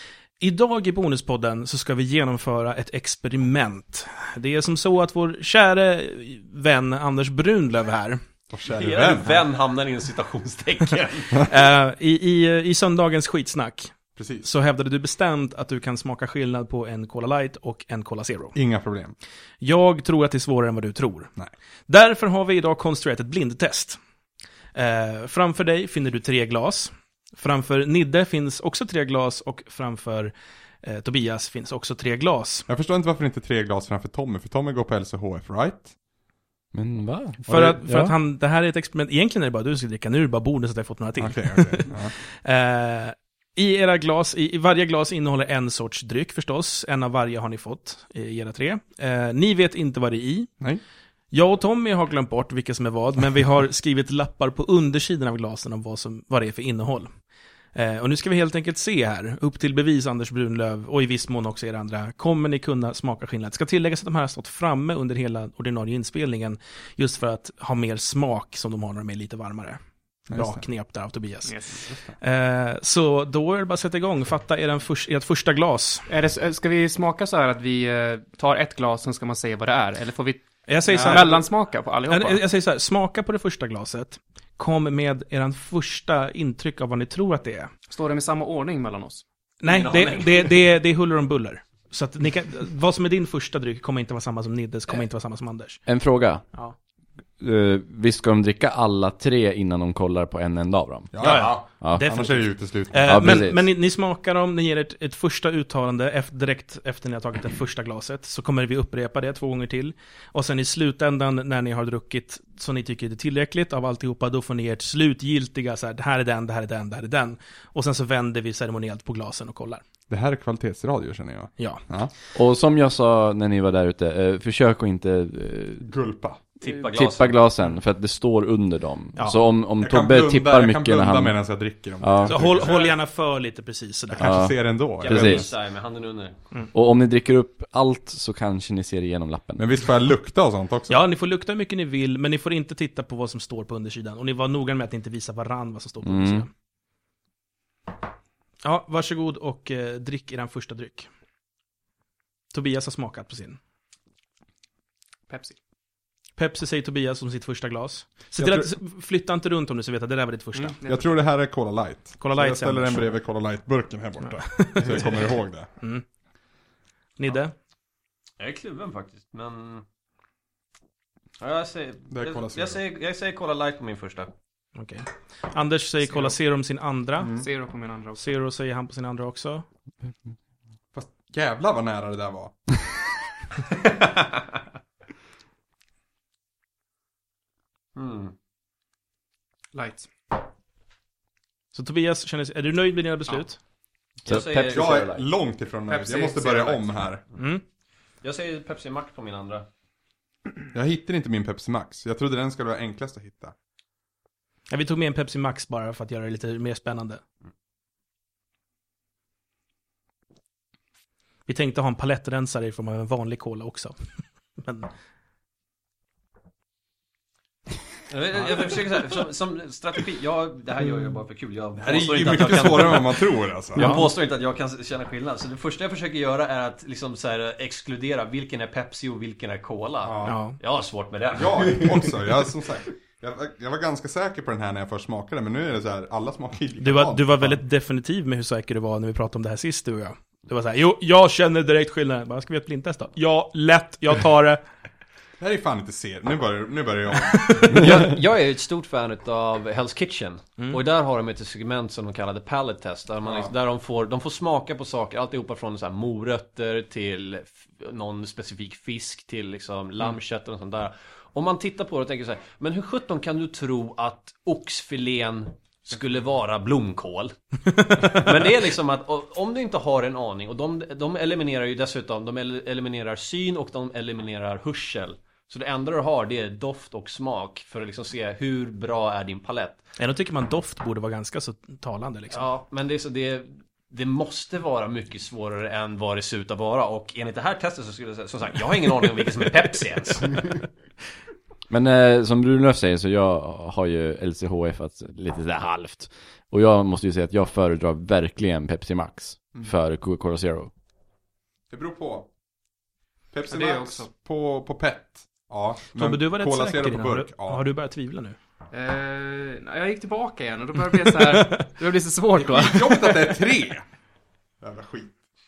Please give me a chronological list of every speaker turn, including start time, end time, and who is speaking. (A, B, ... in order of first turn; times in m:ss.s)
0:00.4-0:08.2 A
0:08.5-0:09.4 B
0:08.7-0:11.5 C
0:11.4-0:18.6 A
0:14.2-0:14.5 B
0:18.6-0:19.1 B
0:19.6-0:21.3 A
0:21.9-0:24.0 A
0:24.8-0:32.7 A
0:32.7-0:35.9 B
0:36.7-0:38.2 D
0:37.5-0:50.5 A
0:41.2-0:42.1 B
0:51.3-0:57.1 A
0:57.8-1:11.6 A
1:10.3-1:10.6 B
1:11.5-1:11.8 E
1:12.2-1:16.1 A
1:16.1-1:22.4 E
1:20.7-1:21.5 A
1:22.1-1:27.7 A
1:27.9-1:29.2 E
1:29.6-1:35.8 A
1:29.7-1:30.6 C
1:35.9-1:36.4 D
1:37.4-1:42.1 D
1:41.1-1:43.3 B
1:41.2-1:59.8 A
1:43.0-1:43.7 D
2:00.1-2:02.1 B
2:01.6-2:01.8 A
2:02.3-2:05.9 D
2:05.8-2:06.4 B
2:06.6-2:07.4 C
2:06.6-2:11.4 D
2:09.2-2:09.4 A
2:09.8-2:12.9 B
2:12.0-2:12.5 D
2:12.3-2:14.4 A
2:14.1-2:15.5 B
2:14.2-2:15.5 D
2:15.0-2:16.4 C
2:16.7-2:19.6 D
2:19.6-2:21.0 B
2:20.9-2:26.5 A
2:26.0-2:26.5 D
2:28.6-2:31.1 A
2:32.5-2:33.6 A
2:35.3-2:35.6 E
2:36.4-2:40.8 A
2:38.4-2:38.7 B
2:40.6-2:41.1 E
2:40.8-2:45.7 B
2:42.2-2:43.2 A
2:44.4-2:45.2 A
2:47.2-2:47.6 A
2:48.4-2:49.8 C
2:51.4-2:54.3 C
2:52.1-2:52.8 B
2:54.8-2:57.3 A
2:57.2-2:58.2 E
2:58.2-2:59.6 A
3:00.9-3:02.9 B
3:08.0-3:08.3 C
3:09.7-3:10.1 E
3:11.7-3:13.6 A
3:14.3-3:15.2 C
3:14.3-3:14.8 D
3:14.5-3:17.2 B
3:15.9-3:17.0 E
3:17.4-3:17.6 A
3:18.2-3:19.7 C
3:20.7-3:23.5 B
3:24.7-3:27.2 A
3:31.5-3:34.0 A
3:34.6-3:34.9 A
3:38.1-3:52.3 C
3:41.8-3:43.9 B
3:43.8-3:44.1 A
3:50.0-3:50.4 B
3:50.3-3:50.6 A
3:51.4-3:57.6 B
3:56.8-4:04.6 A
4:05.4-4:08.0 B
4:07.7-4:39.8 C
4:13.2-4:13.5 B
4:40.0-4:42.4 A
4:42.3-4:50.6 C
4:51.7-5:00.7 D
5:01.7-5:02.3 B
5:03.3-5:07.6 B
5:03.5-5:04.1 E
5:06.0-5:08.4 A
5:08.7-5:13.4 E
5:12.4-5:13.8 B
5:14.6-5:15.2 B